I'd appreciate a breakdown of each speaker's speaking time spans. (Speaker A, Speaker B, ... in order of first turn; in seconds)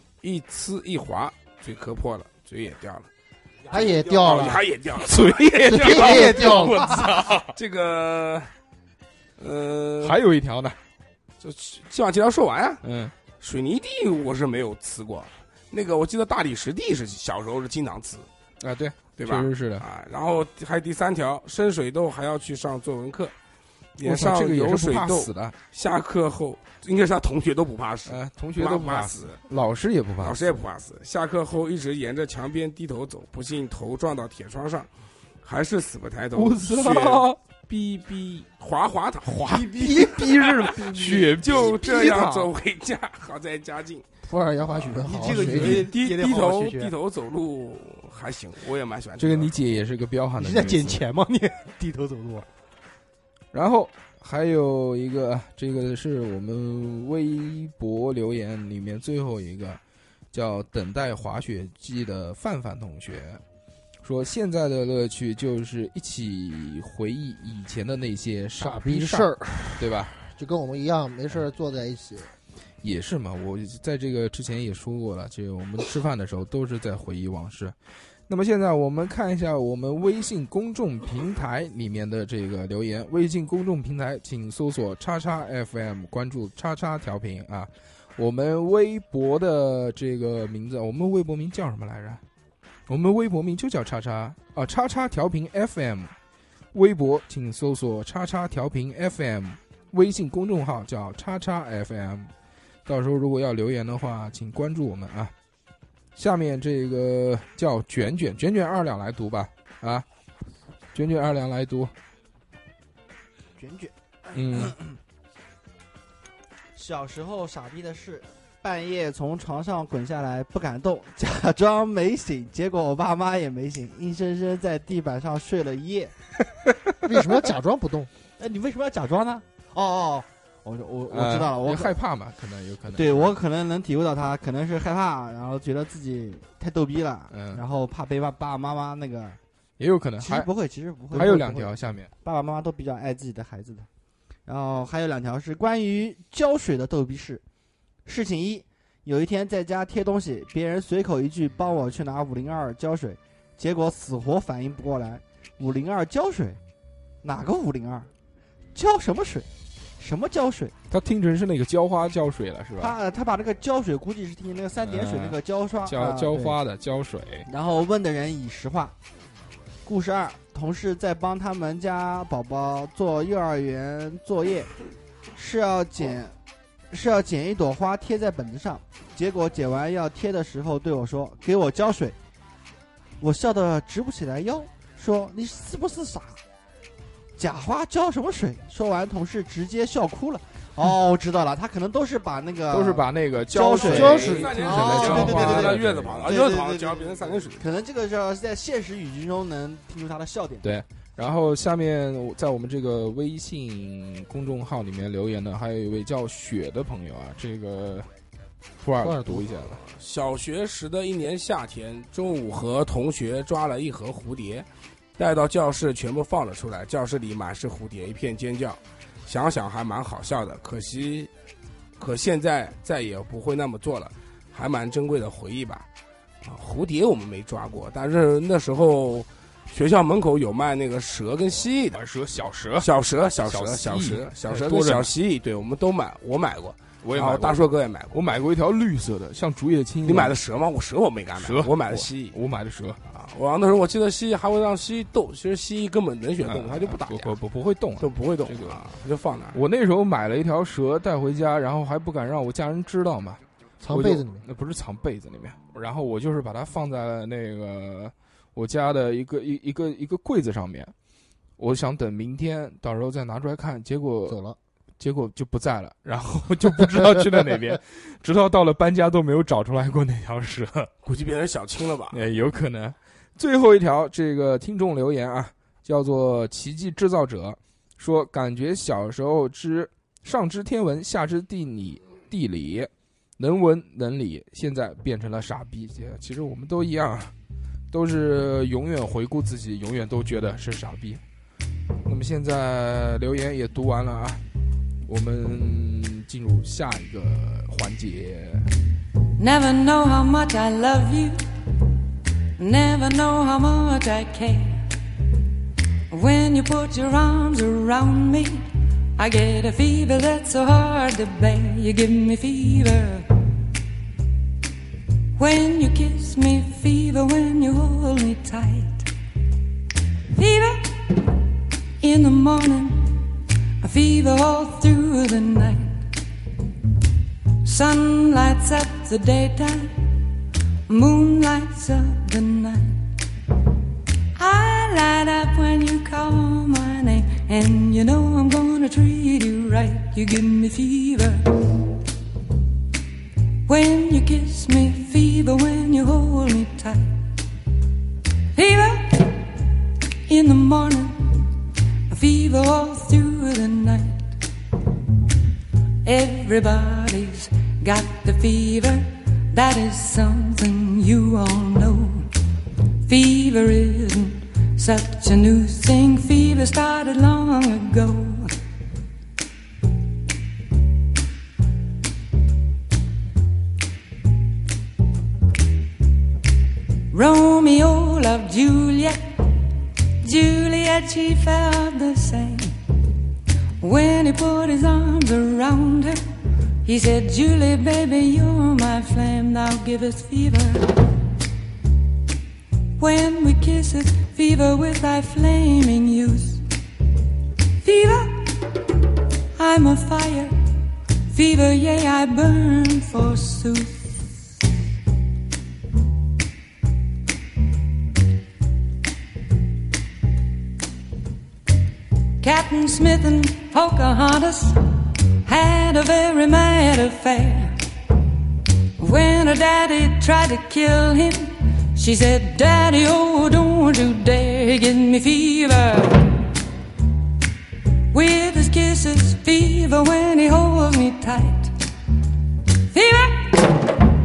Speaker A: 0.2-3.1, 3.7-8.5, 9.4-10.2, 11.4-12.8, 13.4-18.3, 19.2-23.3, 24.0-29.4, 30.2-34.9, 35.4-44.0, 44.6-49.6, 194.0-197.7, 209.8-214.7, 215.2-221.3, 222.0-225.9, 226.4-232.0, 232.8-238.2, 240.0-242.4, 243.1-247.3, 248.0-249.6, 271.0-272.2
Speaker B: 3.7-4.7, 5.7-6.9, 44.2-45.9, 68.6-72.3, 127.0-128.1, 193.7-195.5, 209.0-209.5, 253.8-254.4, 264.3-264.6
Speaker C: 3.8-4.3, 39.5-41.3, 45.0-46.9, 50.4-52.5
Speaker D: 5.0-7.5, 10.0-10.8, 12.8-13.1, 18.6-19.9, 24.0-25.6, 28.1-30.6, 36.3-37.4, 40.9-42.5, 49.2-51.0, 53.5-59.8, 60.3-63.4, 64.0-70.2, 72.8-77.7, 78.3-92.2, 92.9-96.1, 96.7-102.3, 102.8-105.3, 106.1-110.0, 110.9-111.9, 114.3-114.7, 131.1-133.3, 137.3-137.6, 139.8-140.5, 141.1-142.1, 160.9-162.9, 164.8-167.5, 192.7-196.3, 200.6-208.1, 208.8-209.8, 231.9-232.9, 233.4-235.1, 237.0-240.3, 241.4-243.0, 246.4-248.8, 249.5-260.9, 261.6-264.4, 265.0-270.9, 272.1-287.3, 287.9-291.2, 292.0-294.4, 295.1-298.7
Speaker E: 113.6-114.9, 116.8-126.1, 128.4-132.0, 132.9-139.4, 140.2-143.9, 144.4-147.4, 148.1-156.6, 157.2-158.1, 158.7-159.5, 160.0-160.7, 162.8-166.6, 167.5-168.9, 169.8-174.7, 175.3-176.3, 176.9-182.2, 183.2-186.4, 187.4-200.7
Speaker F: 299.4-301.4, 302.6-304.9, 306.1-308.6, 309.1-313.3, 315.4-319.1, 320.3-321.2, 322.0-323.2, 323.8-326.1, 327.6-330.1, 330.9-333.0, 334.4-341.6, 343.6-347.1, 348.5-349.4, 350.3-351.5, 352.1-354.4, 356.0-362.3, 363.1-368.5, 377.1-379.3, 380.2-382.7, 383.8-386.2, 386.8-391.0, 393.0-396.6, 397.8-398.6, 399.6-400.5, 401.3-404.3, 412.4-417.7, 419.0-426.4, 428.1-431.7, 432.9-433.8